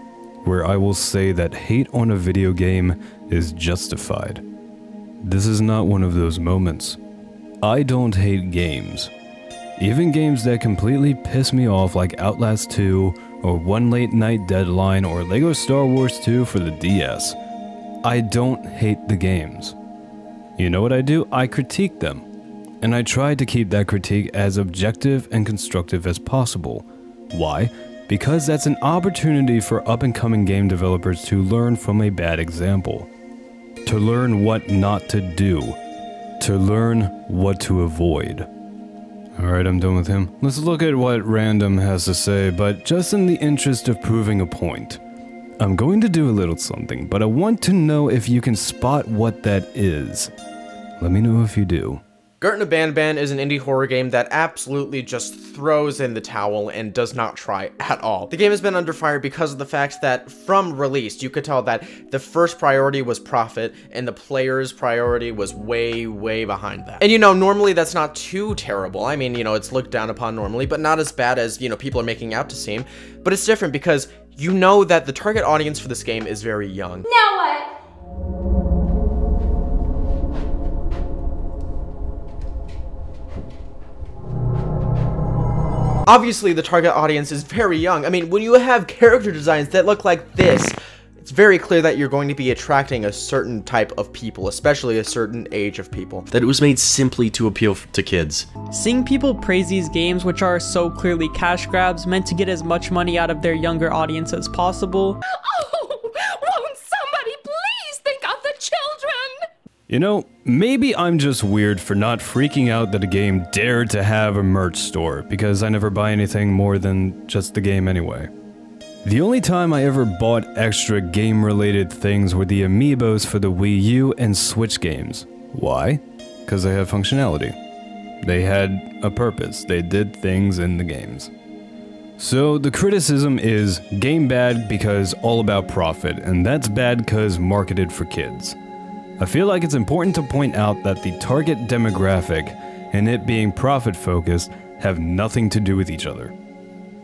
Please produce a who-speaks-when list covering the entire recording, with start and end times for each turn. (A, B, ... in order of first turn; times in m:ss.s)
0:00.4-0:04.4 A
0:05.2-0:07.0 A
0:07.6-0:09.1 A
0:09.8-0:17.4 A
0:18.0-0:19.8 A
0:20.6-0:22.3 A
0:22.8-0:33.1 A
0:33.8-0:35.8 A
0:36.4-0:38.5 A
0:39.4-0:45.0 A
0:45.6-0:50.3 A
0:51.0-0:52.0 A
0:52.4-1:17.0 B
1:17.0-1:17.7 C
1:26.1-1:36.3 B
1:36.3-1:38.5 D
1:38.7-1:45.2 E
1:45.3-1:49.4 C
1:49.9-1:58.3 A
1:59.0-2:07.6 A
2:08.2-2:11.3 A
2:12.2-2:18.6 A
2:19.2-2:26.3 A